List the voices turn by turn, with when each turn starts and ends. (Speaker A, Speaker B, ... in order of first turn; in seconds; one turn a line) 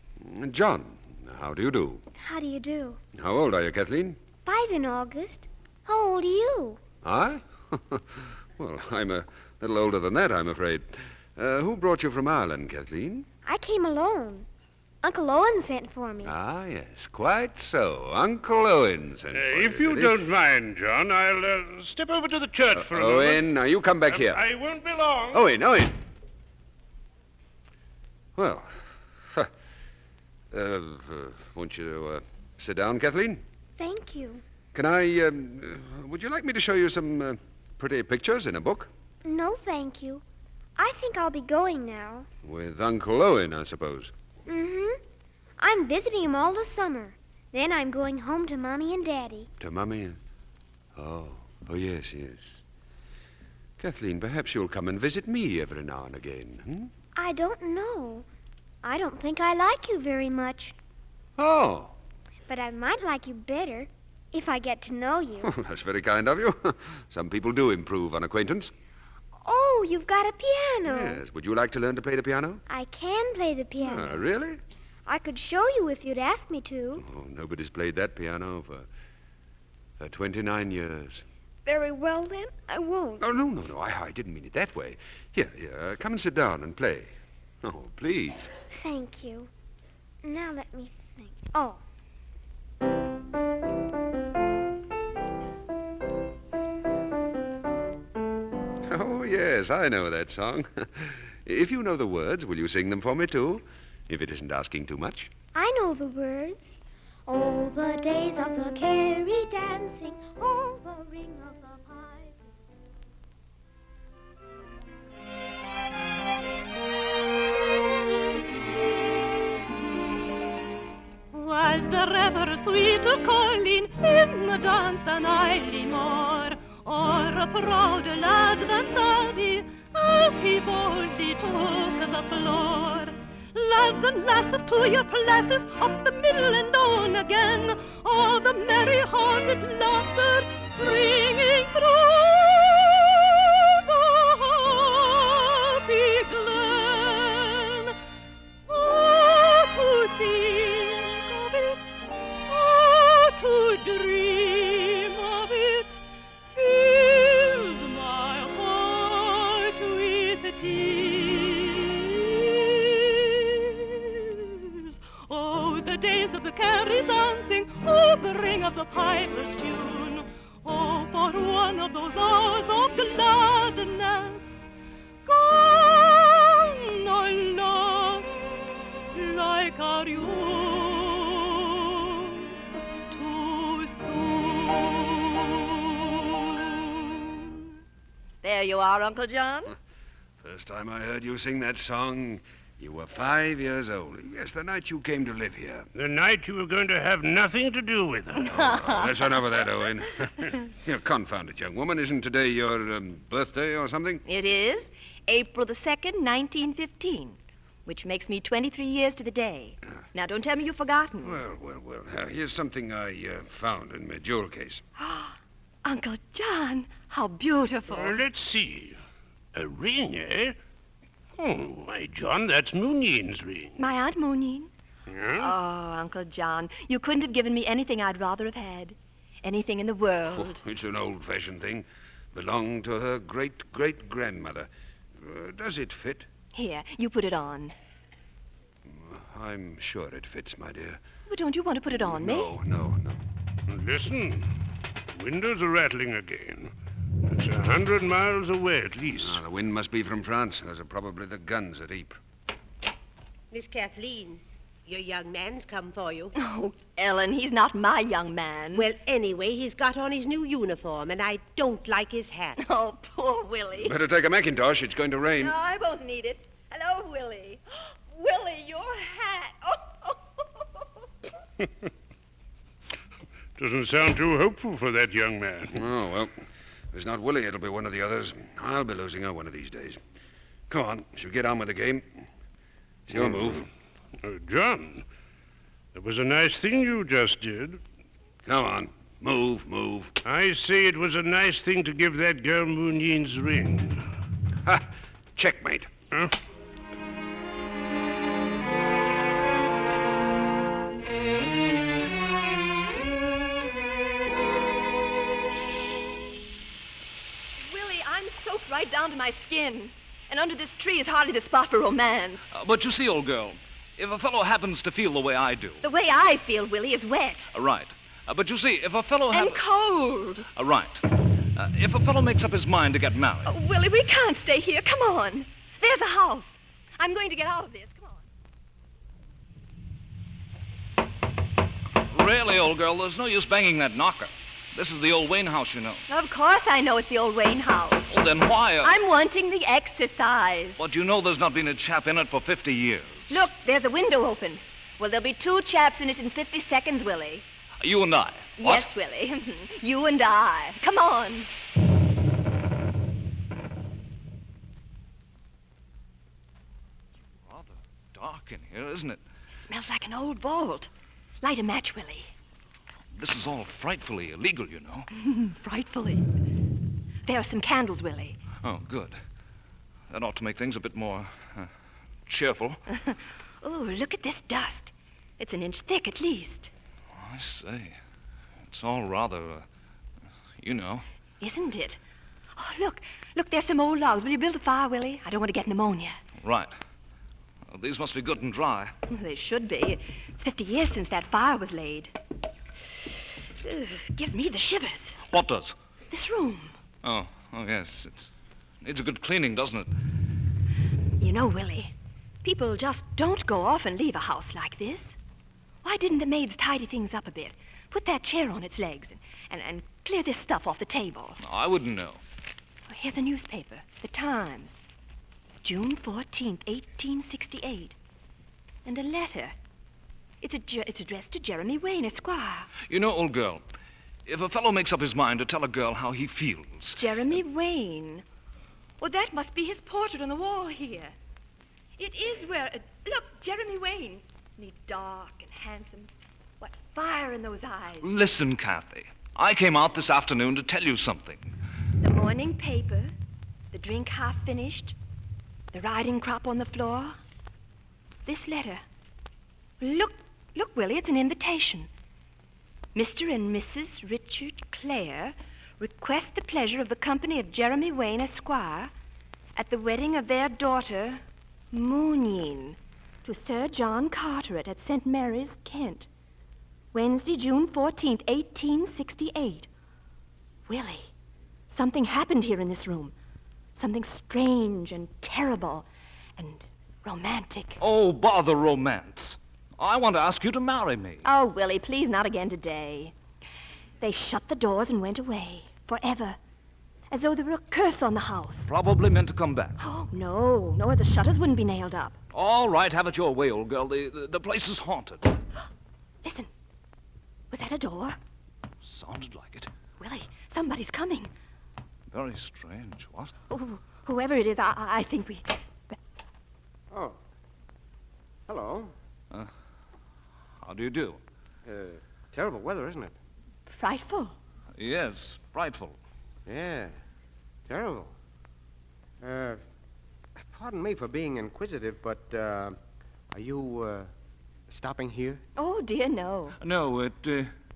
Speaker A: 0.2-2.0
Speaker B: 2.2-3.0
Speaker A: 3.1-4.2
Speaker B: 4.5-6.8
Speaker A: 7.0-13.2
Speaker B: 13.4-14.4
Speaker B: 15.0-16.3
Speaker A: 16.2-20.2
Speaker C: 19.3-23.5
Speaker A: 22.7-24.4
Speaker C: 24.1-25.5
Speaker A: 25.3-25.9
Speaker A: 28.4-28.7
Speaker A: 30.5-33.4
Speaker B: 33.8-34.4
Speaker A: 34.7-38.9
Speaker B: 39.2-40.2
Speaker B: 40.8-42.3
Speaker A: 42.4-44.1
Speaker B: 44.5-45.0
Speaker B: 45.6-49.5
Speaker A: 49.6-50.2
Speaker A: 50.9-52.6
Speaker A: 53.8-56.9
Speaker B: 57.1-58.3
Speaker B: 58.8-60.7
Speaker A: 61.4-61.9
Speaker B: 62.5-65.5
Speaker A: 65.4-68.7
Speaker B: 69.4-71.2
Speaker A: 70.9-72.6
Speaker B: 72.7-74.2
Speaker A: 73.8-74.6
Speaker B: 75.0-77.0
Speaker A: 77.0-78.9
Speaker A: 80.0-81.2
Speaker B: 81.7-83.2
Speaker A: 83.2-87.1
Speaker A: 87.6-88.5
Speaker B: 88.7-89.5
Speaker B: 90.2-91.8
Speaker A: 98.9-105.3
Speaker B: 105.5-112.7
Speaker D: 121.3-147.9
Speaker D: 148.7-156.0
Speaker D: 156.5-174.7
Speaker D: 175.2-182.6
Speaker D: 183.1-187.4
Speaker E: 188.4-189.7
Speaker A: 190.4-195.9
Speaker C: 195.9-198.7
Speaker E: 198.5-199.1
Speaker A: 198.5-204.2
Speaker E: 204.2-211.4
Speaker A: 211.2-214.8
Speaker E: 215.0-218.2
Speaker C: 217.9-219.0
Speaker C: 219.5-220.6
Speaker C: 221.4-223.8
Speaker E: 223.8-224.7
Speaker C: 225.1-225.5
Speaker E: 225.4-230.6
Speaker A: 230.3-236.3
Speaker E: 236.5-237.7
Speaker A: 238.8-241.0
Speaker E: 241.3-242.6
Speaker A: 242.0-243.2
Speaker C: 243.7-244.5
Speaker C: 245.1-246.7
Speaker C: 247.2-249.4
Speaker A: 249.2-252.2
Speaker F: 253.5-256.3
Speaker E: 256.3-258.9
Speaker F: 258.7-262.6
Speaker E: 262.6-263.9
Speaker A: 263.8-265.5
Speaker E: 265.4-270.6
Speaker C: 273.6-275.8
Speaker A: 275.7-276.3
Speaker A: 276.9-280.0
Speaker A: 280.7-282.2
Speaker A: 283.1-283.6
Speaker C: 283.1-283.6
Speaker C: 284.2-285.1
Speaker C: 285.9-287.8
Speaker A: 288.4-290.1
Speaker C: 290.2-294.1
Speaker A: 295.4-295.9
Speaker E: 307.6-312.5
Speaker G: 312.5-315.8
Speaker E: 315.8-317.5
Speaker G: 317.5-319.6
Speaker E: 319.3-320.5
Speaker G: 320.5-323.5
Speaker E: 323.4-328.2
Speaker G: 332.1-336.0
Speaker E: 336.1-338.2
Speaker G: 338.1-338.9
Speaker E: 338.8-340.9
Speaker G: 340.8-343.5
Speaker E: 343.3-347.4
Speaker G: 347.8-348.9
Speaker E: 348.6-351.5
Speaker G: 357.4-359.2
Speaker E: 359.5-362.3
Speaker G: 363.1-365.1
Speaker E: 365.1-366.3
Speaker E: 367.2-368.4
Speaker G: 368.6-369.2
Speaker G: 370.1-371.7
Speaker G: 372.2-372.8
Speaker E: 372.9-376.7
Speaker G: 377.1-378.0
Speaker G: 378.7-379.6
Speaker G: 380.6-381.0
Speaker E: 381.4-382.0
Speaker E: 382.6-386.2
Speaker G: 386.4-386.7
Speaker G: 387.7-388.9
Speaker E: 389.1-392.1
Speaker E: 393.6-395.2
Speaker G: 395.3-395.7
Speaker E: 396.1-396.7
Speaker G: 397.0-398.3
Speaker G: 398.8-399.9
Speaker E: 401.2-401.9
Speaker E: 402.4-405.2
Speaker E: 405.8-411.4
Speaker G: 411.4-412.2
Speaker E: 412.9-414.8
Speaker E: 415.6-417.9
Speaker E: 418.9-419.6
Speaker E: 420.4-422.7
Speaker G: 422.9-423.6
Speaker G: 424.2-427.3
Speaker E: 426.9-428.2
Speaker E: 429.0-431.1
Speaker E: 432.0-438.1
Speaker G: 438.0-441.5
Speaker E: 442.0-443.1
Speaker E: 443.7-444.9
Speaker E: 445.7-447.2
Speaker E: 448.2-448.8
Speaker E: 449.8-451.9
Speaker E: 452.9-458.9
Speaker E: 459.5-466.1
Speaker E: 466.9-469.7
Speaker E: 470.7-471.1
Speaker E: 471.7-473.1
Speaker E: 473.8-477.8
Speaker G: 477.8-481.2
Speaker E: 481.2-483.1
Speaker E: 484.0-486.4
Speaker E: 487.1-488.7
Speaker G: 488.7-489.8
Speaker E: 489.8-492.2
Speaker G: 492.3-495.4
Speaker E: 496.2-496.5
Speaker E: 497.5-498.2
Speaker G: 498.8-499.7
Speaker E: 500.0-501.3
Speaker G: 502.1-503.3
Speaker E: 503.5-506.0
Speaker H: 506.9-507.2
Speaker H: 508.5-508.9
Speaker G: 510.6-511.2
Speaker H: 511.6-513.1
Speaker E: 513.7-514.4
Speaker G: 514.8-516.0
Speaker H: 516.5-516.9
Speaker H: 517.7-518.1
Speaker H: 519.2-519.6
Speaker H: 520.5-522.8
Speaker H: 523.3-524.1
Speaker H: 524.7-525.4
Speaker E: 525.5-526.5
Speaker G: 526.6-527.5